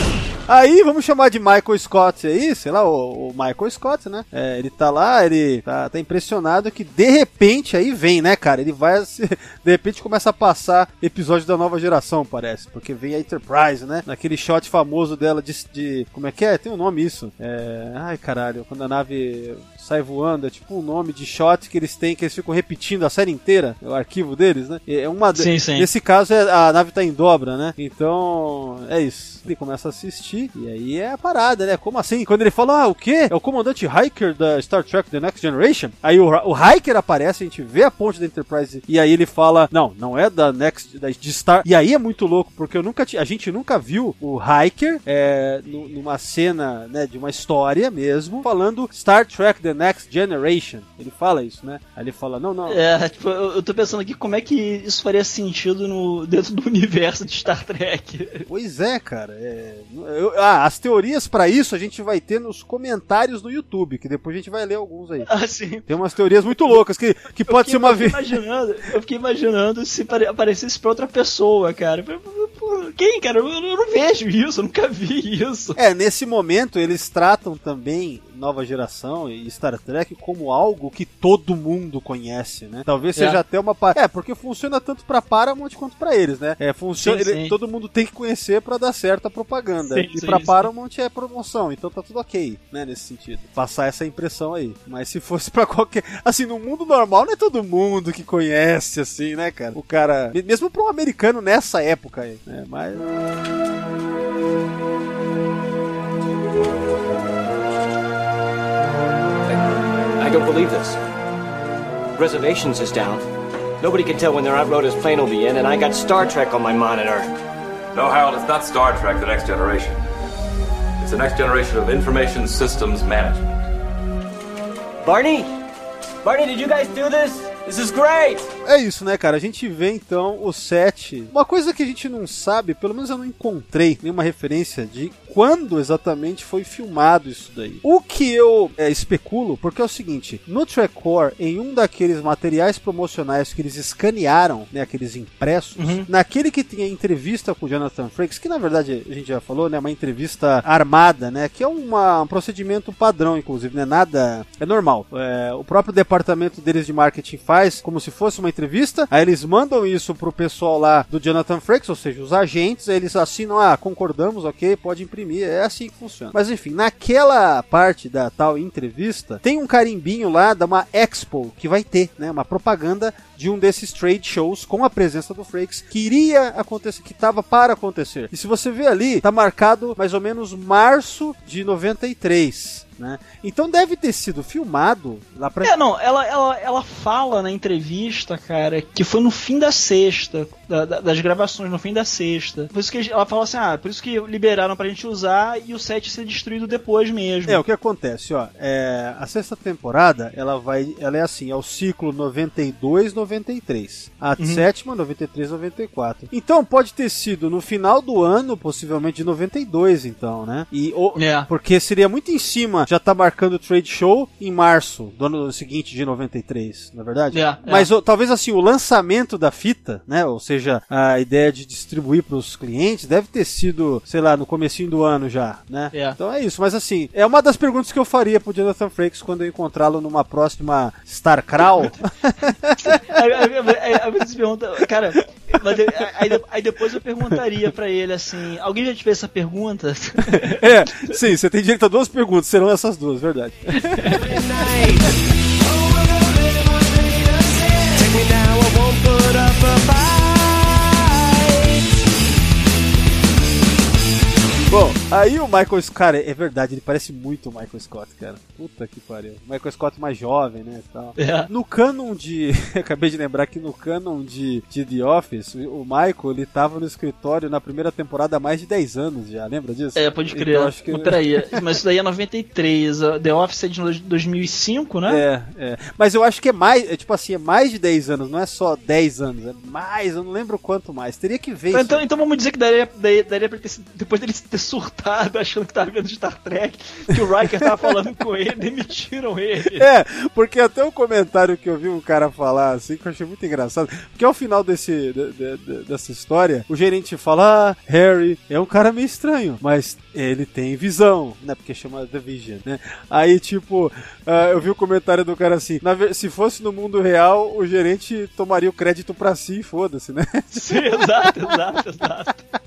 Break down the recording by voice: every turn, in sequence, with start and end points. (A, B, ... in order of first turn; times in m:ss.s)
0:00.5-0:52.8 A
0:25.3-0:25.9 B
0:52.7-0:58.5 B
0:58.5-1:05.3 A
1:05.3-1:05.8 B
1:05.8-1:08.3 A
1:07.5-1:15.8 B
1:15.8-1:43.1 A
1:27.0-1:27.5 B
1:29.9-1:30.7 B
1:50.2-1:51.0 C
1:52.2-1:53.2 C
1:53.8-1:57.3 C
1:57.9-2:00.0 D
2:01.0-2:03.4 D
2:05.0-2:05.5 C
2:06.2-2:08.5 C
2:08.6-3:05.7 A
2:25.8-2:26.1 B
3:05.6-3:17.6 B
3:17.5-3:53.4 A
3:24.4-3:24.6 B
3:31.2-3:31.5 B
3:37.3-3:37.9 B
3:52.8-4:01.1 B
3:55.5-3:56.0 A
4:00.3-4:04.3 A
4:03.8-4:04.2 B
4:04.1-4:11.7 E
4:14.7-4:31.6 A
4:21.2-4:21.5 B
4:30.0-4:35.2 B
4:35.1-4:42.0 A
4:41.7-4:49.8 B
4:49.8-5:11.5 A
5:10.5-5:12.4 B